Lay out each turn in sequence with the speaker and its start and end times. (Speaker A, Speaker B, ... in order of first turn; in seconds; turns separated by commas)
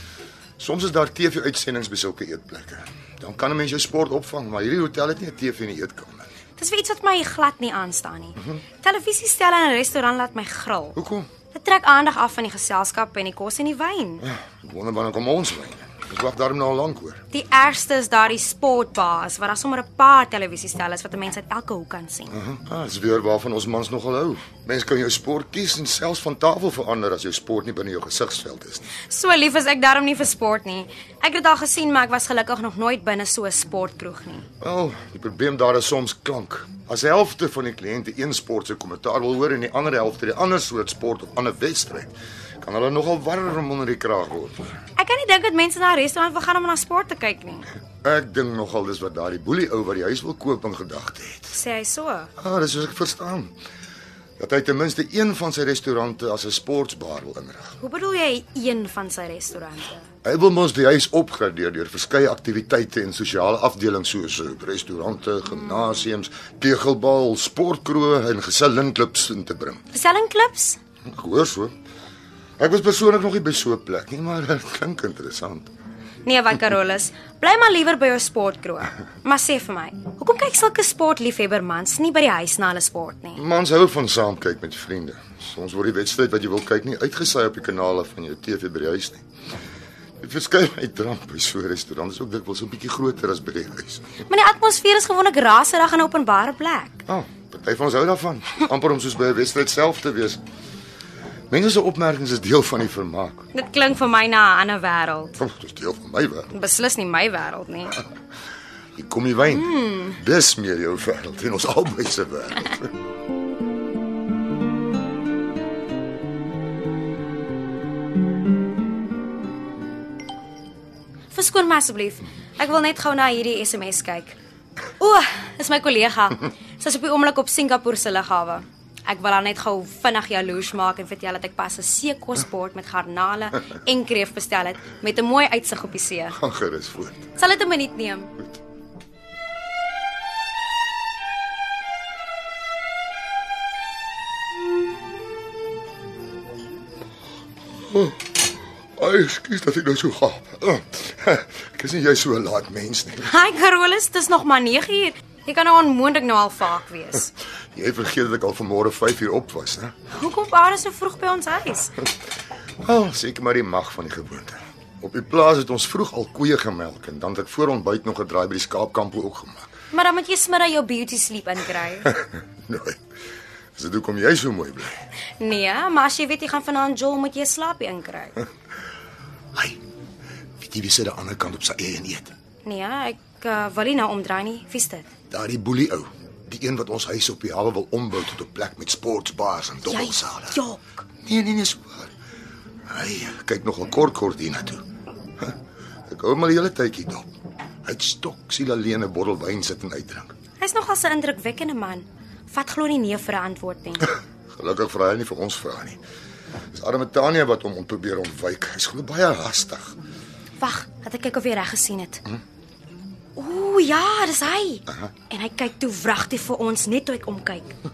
Speaker A: 0.6-6.3, Speaker B: 6.6-11.0, Speaker A: 10.9-11.3, Speaker B: 11.5-14.2, Speaker A: 14.2-17.2, Speaker B: 17.3-22.3, Speaker A: 22.3-28.9, Speaker B: 29.1-34.5, Speaker A: 34.6-44.8, Speaker B: 45.0-47.7, Speaker A: 48.0-51.5, Speaker B: 51.5-52.3, Speaker A: 52.4-53.5, Speaker A: 54.4-57.7, Speaker B: 57.8-60.0, Speaker A: 60.2-69.8, Speaker B: 69.9-70.8, Speaker A: 71.1-71.7, Speaker A: 72.6-75.7, Speaker B: 76.2-83.4, Speaker A: 83.3-89.2, Speaker A: 90.2-94.0, Speaker B: 94.3-97.0, Speaker A: 97.1-100.4, Speaker A: 101.5-103.5, Speaker B: 103.5-105.3, Speaker A: 105.4-106.5, Speaker B: 106.5-108.0, Speaker A: 109.0-112.9, Speaker B: 109.5-110.2, Speaker B: 121.3-124.3, Speaker B: 125.0-136.4, Speaker A: 136.3-137.2, Speaker B: 137.3-138.3, Speaker A: 147.9-148.3, Speaker A: 149.0-153.3, Speaker B: 153.2-157.3, Speaker A: 157.7-159.9, Speaker B: 160.1-161.9, Speaker A: 162.8-169.7, Speaker B: 169.9-172.1, Speaker A: 172.0-173.0, Speaker A: 173.8-175.0, Speaker B: 175.4-178.4, Speaker A: 179.5-179.8, Speaker A: 180.6-182.3, Speaker B: 182.6-185.1, Speaker A: 185.3-190.6, Speaker B: 189.9-191.0, Speaker A: 191.2-192.1, Speaker A: 192.9-194.8, Speaker A: 196.1-197.3, Speaker A: 197.8-200.3, Speaker B: 200.6-204.1, Speaker A: 204.5-206.0, Speaker A: 206.7-210.0, Speaker B: 210.6-212.2, Speaker B: 213.3-217.7